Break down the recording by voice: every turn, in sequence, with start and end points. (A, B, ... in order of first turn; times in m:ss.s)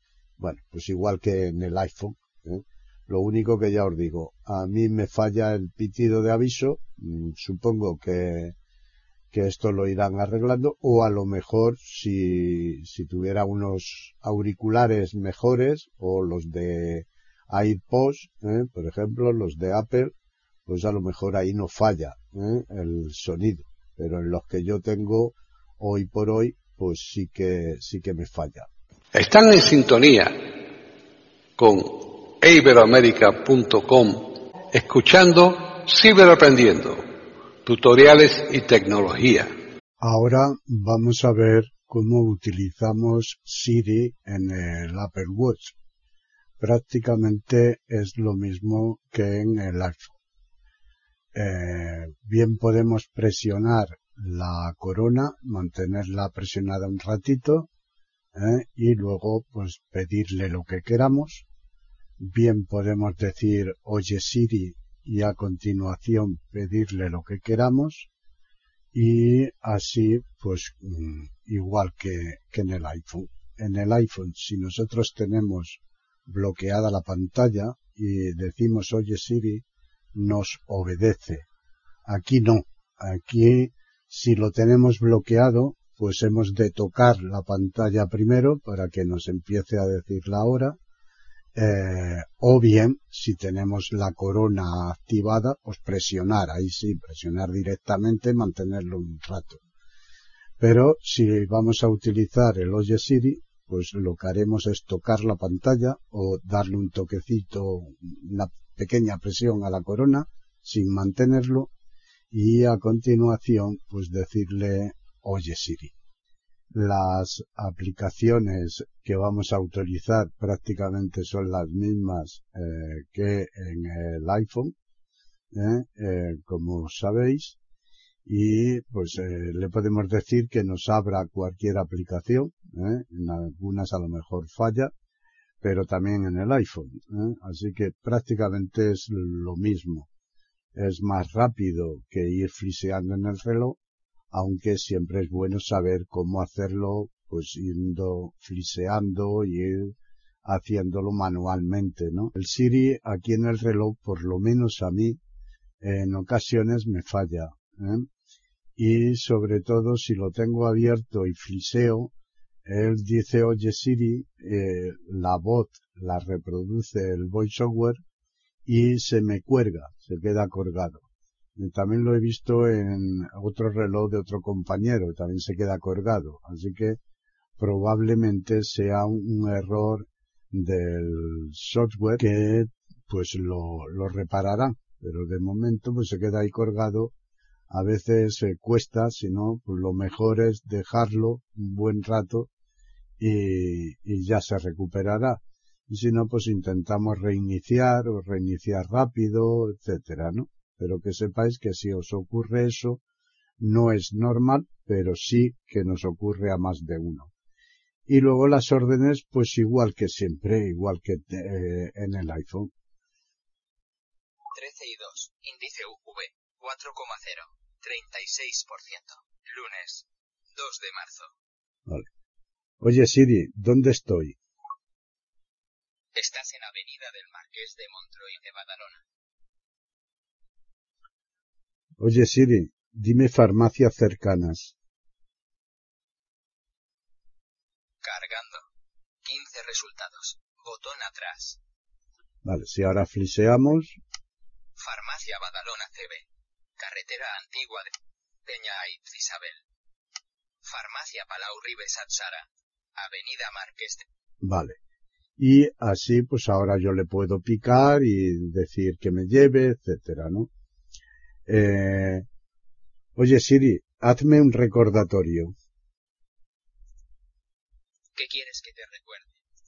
0:00.4-0:08.6 A
0:09.3-0:20.1 A
0:20.6-0:28.7 A
0:29.1-0:30.6 B
0:31.6-0:37.1 B
0:37.6-0:39.5 B
0:40.0-0:45.7 A
0:46.6-0:50.1 A
0:51.3-0:57.7 A
0:58.3-1:01.4 A
1:02.2-1:08.1 A
1:08.9-1:21.5 A
1:22.0-1:30.8 A
1:31.5-1:39.6 A
1:40.6-1:51.7 A
1:52.3-1:55.9 A
1:56.7-2:04.7 A
2:05.5-2:07.6 A
2:08.2-2:14.9 A
2:15.6-2:20.1 A
2:20.7-2:23.8 A
2:24.3-2:35.2 A
2:35.8-2:38.1 A
2:38.8-2:42.1 A
2:42.6-2:48.0 A
2:48.6-2:57.0 A
2:57.6-3:07.1 A
3:07.7-3:12.5 A
3:13.2-3:23.0 A
3:23.6-3:27.3 A
3:28.1-3:32.7 A
3:34.5-3:41.3 C
3:42.8-3:44.4 A
3:46.1-3:49.0 C
3:52.0-3:54.7 A
3:58.0-3:58.6 C
3:59.2-4:01.6 C
4:02.4-4:04.0 A
4:04.8-4:06.2 C
4:06.8-4:07.9 C
4:08.4-4:09.6 C
4:10.6-4:14.0 C
4:14.4-4:14.8 A
4:15.4-4:20.5 A
4:21.5-4:22.3 A
4:23.2-4:25.5 A
4:28.2-4:29.4 C